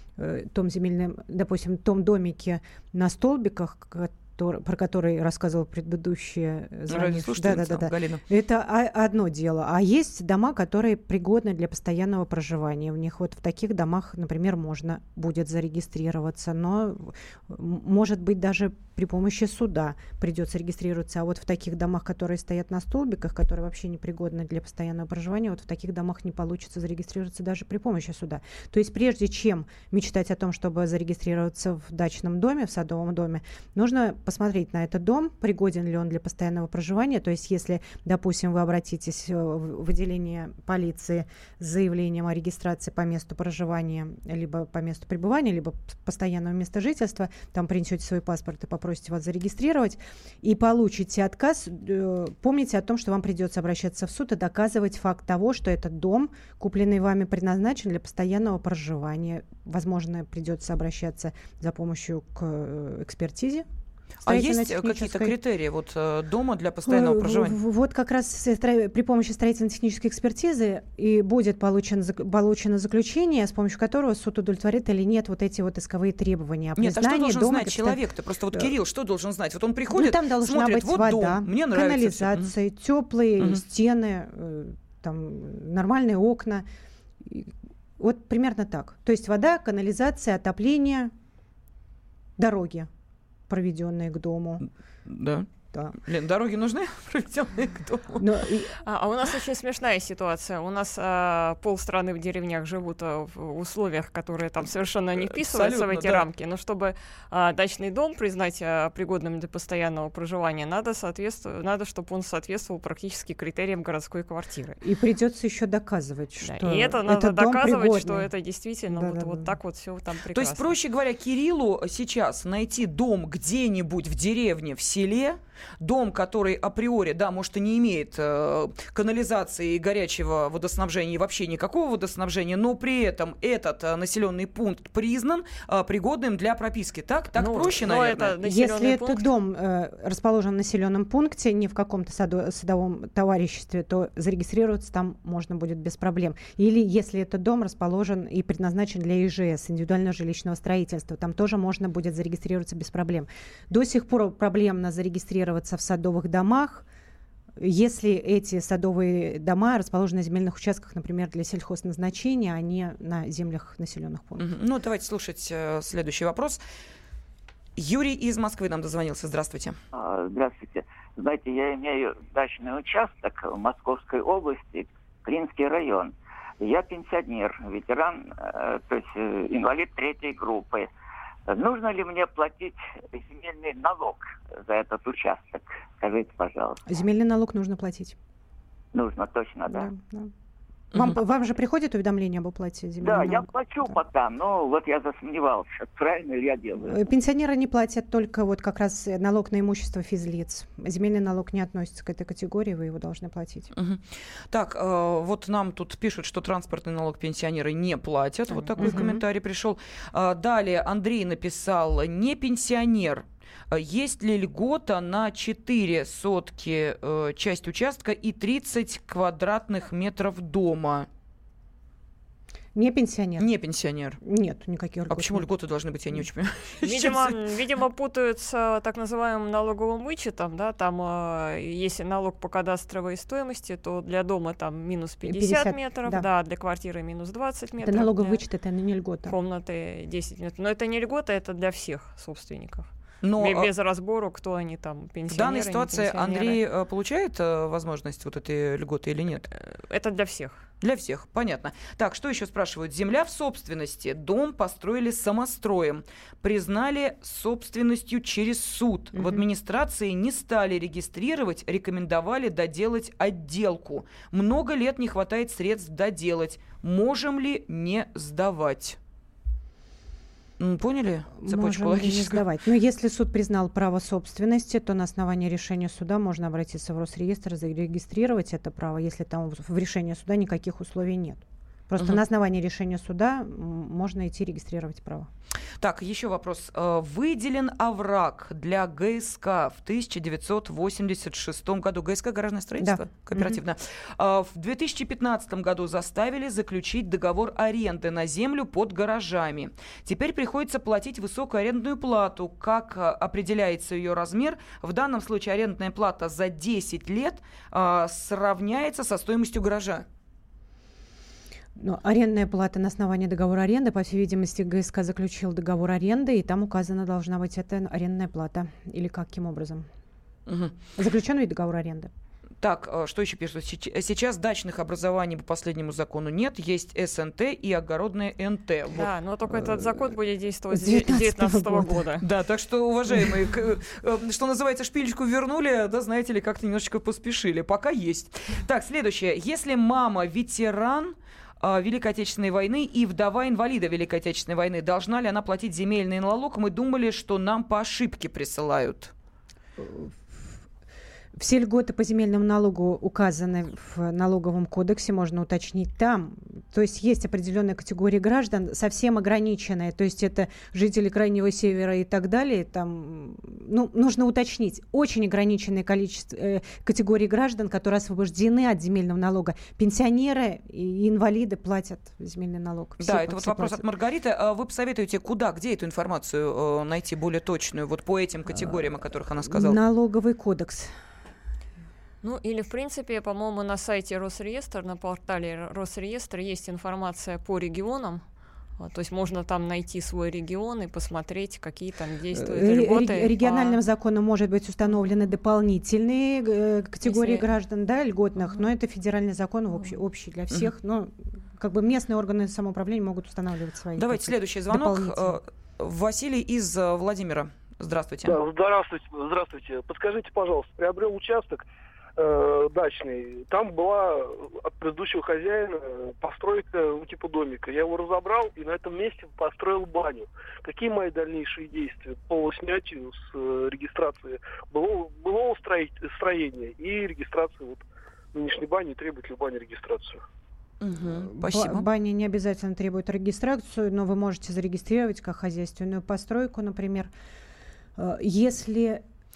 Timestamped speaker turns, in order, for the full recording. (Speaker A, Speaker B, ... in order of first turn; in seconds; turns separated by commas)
Speaker A: 0.2-63.6, Speaker B: 6.9-8.2, Speaker B: 64.2-67.6, Speaker A: 64.2-65.3, Speaker A: 66.8-78.0, Speaker B: 76.8-82.5, Speaker A: 79.9-86.7, Speaker A: 87.2-91.1, Speaker A: 92.4-92.9, Speaker A: 93.5-94.6, Speaker B: 95.1-95.5, Speaker B: 96.0-98.2, Speaker A: 98.2-98.8, Speaker C: 98.8-114.8, Speaker B: 105.3-106.2, Speaker A: 114.8-118.3, Speaker C: 116.4-120.8, Speaker A: 118.9-119.5, Speaker B: 120.3-138.3, Speaker C: 137.4-139.3, Speaker A: 138.4-156.8, Speaker A: 157.6-164.5, Speaker B: 164.4-166.6, Speaker B: 167.8-169.8, Speaker D: 169.9-180.9, Speaker D: 181.5-186.8, Speaker A: 186.8-188.2, Speaker D: 188.9-189.9, Speaker A: 189.7-190.3, Speaker A: 190.9-193.9, Speaker D: 193.0-197.0, Speaker A: 196.8-203.7, Speaker B: 203.7-221.1, Speaker C: 208.5-208.9, Speaker A: 208.8-209.2, Speaker A: 222.7-223.5, Speaker B: 223.4-224.2, Speaker A: 224.2-225.5, Speaker B: 225.1-227.4, Speaker C: 226.8-238.4, Speaker A: 235.2-236.3, Speaker A: 237.8-239.3, Speaker C: 239.3-246.6, Speaker B: 243.2-243.7, Speaker B: 245.3-249.5, Speaker C: 249.5-250.6, Speaker B: 250.8-269.0, Speaker A: 259.1-259.4, Speaker B: 270.6-272.4, Speaker A: 271.4-285.3, Speaker B: 285.8-310.0, Speaker A: 292.8-293.6, Speaker A: 311.8-319.9, Speaker B: 320.5-320.8, Speaker A: 321.0-322.1, Speaker B: 322.6-329.1, Speaker C: 328.9-332.2, Speaker A: 329.5-329.8, Speaker A: 330.7-332.1, Speaker B: 332.2-349.1, Speaker A: 349.8-350.5, Speaker A: 351.4-373.8, Speaker B: 373.0-379.8, Speaker A: 378.5-380.9, Speaker C: 382.2-388.2, Speaker C: 388.8-393.8, Speaker A: 392.3-405.4, Speaker C: 397.0-397.4, Speaker B: 404.0-408.4, Speaker E: 408.2-411.6, Speaker E: 412.2-430.2, Speaker B: 430.8-431.9, Speaker A: 431.3-437.1, Speaker A: 437.9-439.0